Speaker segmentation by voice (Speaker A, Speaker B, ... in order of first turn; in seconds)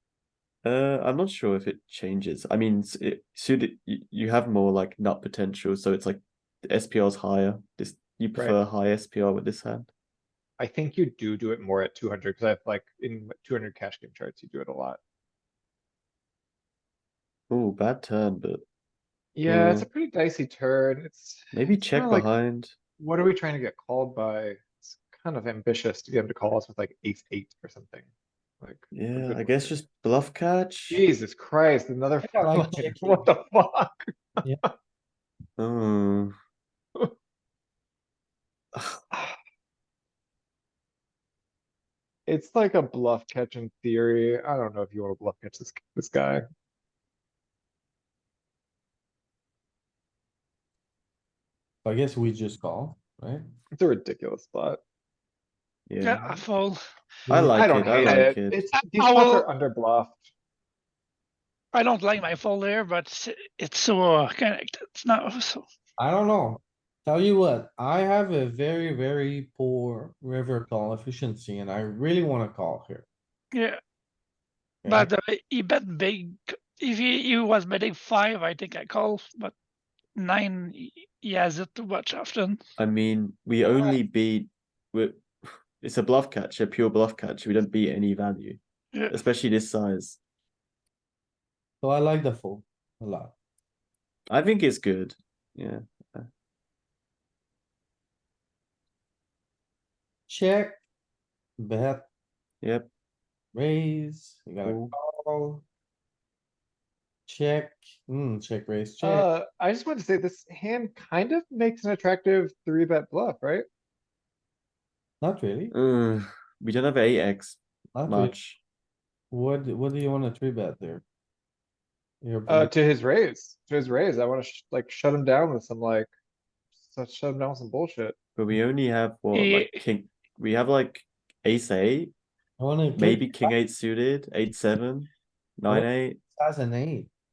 Speaker A: 0.6-9.9, 17.5-18.6, 19.4-19.9, 21.5-22.7, 28.9-31.0, 35.6-36.4, 38.7-39.0, 55.9-56.2, 57.3-58.6, 82.8-90.2, 94.3-96.3, 102.6-102.9, 104.6-104.9, 115.7-118.6, 128.3-132.1, 132.9-136.2
Speaker B: 10.6-15.0, 19.4-22.3, 23.0-28.1, 28.6-29.8, 30.9-34.7, 42.3-46.4, 53.8-54.8, 57.5-60.3, 109.0-113.7, 122.5-126.1, 126.8-128.2
Speaker C: 32.2-33.3, 51.8-53.4, 57.3-58.2, 66.0-73.1, 74.8-75.1, 91.8-93.3, 100.3-100.8, 101.6-102.0, 103.5-105.6, 107.3-109.3, 115.2-115.7, 117.9-118.3, 119.3-121.0, 122.2-122.7, 132.6-133.5, 135.7-137.1
Speaker D: 56.0-56.8, 59.0-59.4, 61.7-65.6, 73.5-73.8, 74.8-79.5, 80.2-82.6, 129.3-129.8